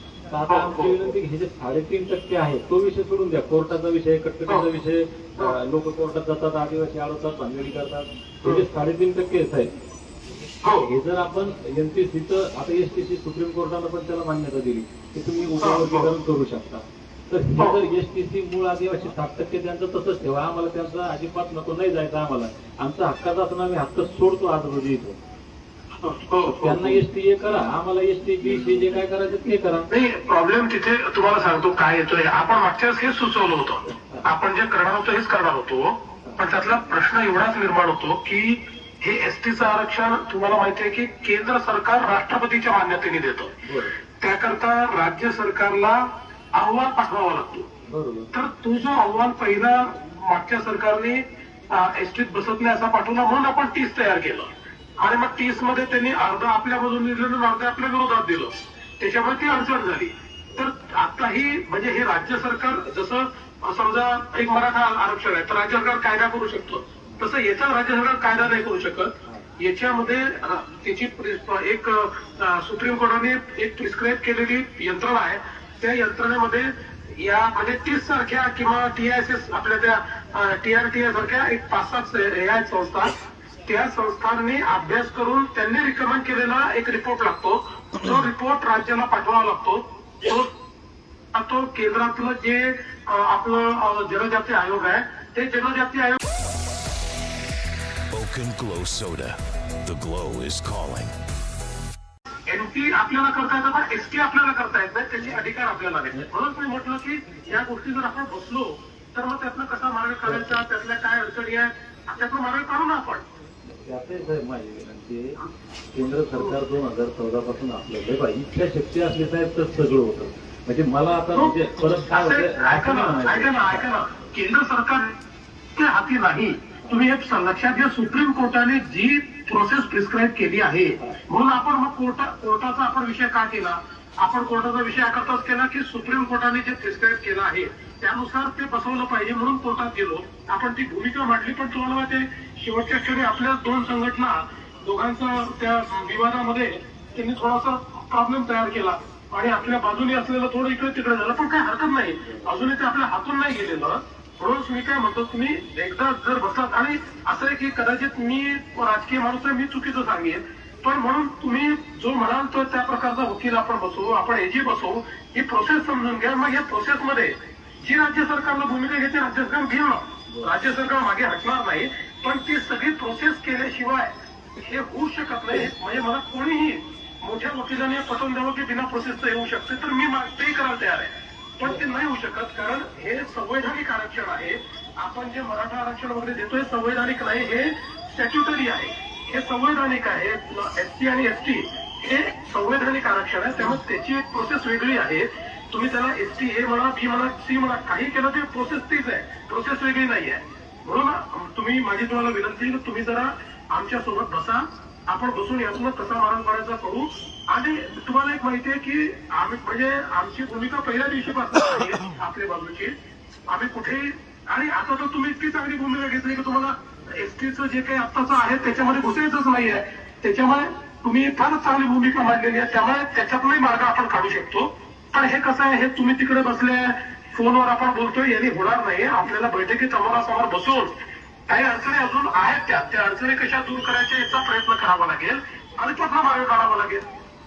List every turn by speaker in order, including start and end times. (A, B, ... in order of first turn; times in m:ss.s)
0:00.3-0:09.7 A
0:00.5-0:01.1 B
0:10.6-0:10.9 B
0:10.9-0:25.2 A
0:15.6-0:16.1 B
0:26.0-0:27.0 B
0:26.5-0:29.9 A
0:29.9-0:43.5 B
0:33.9-0:34.3 A
0:43.6-0:44.0 A
0:44.2-0:46.0 B
0:46.5-0:47.7 B
0:47.9-0:48.3 A
0:48.3-1:23.1 B
1:23.6-1:30.5 B
1:31.3-1:36.2 B
1:38.1-1:41.2 C
1:42.5-1:53.2 B
1:50.2-1:50.6 A
1:53.7-1:55.4 A
1:55.9-2:03.8 A
2:01.3-2:05.1 B
2:05.8-3:32.9 B
2:50.3-2:50.6 A
3:33.5-3:50.9 B
3:51.5-3:57.0 B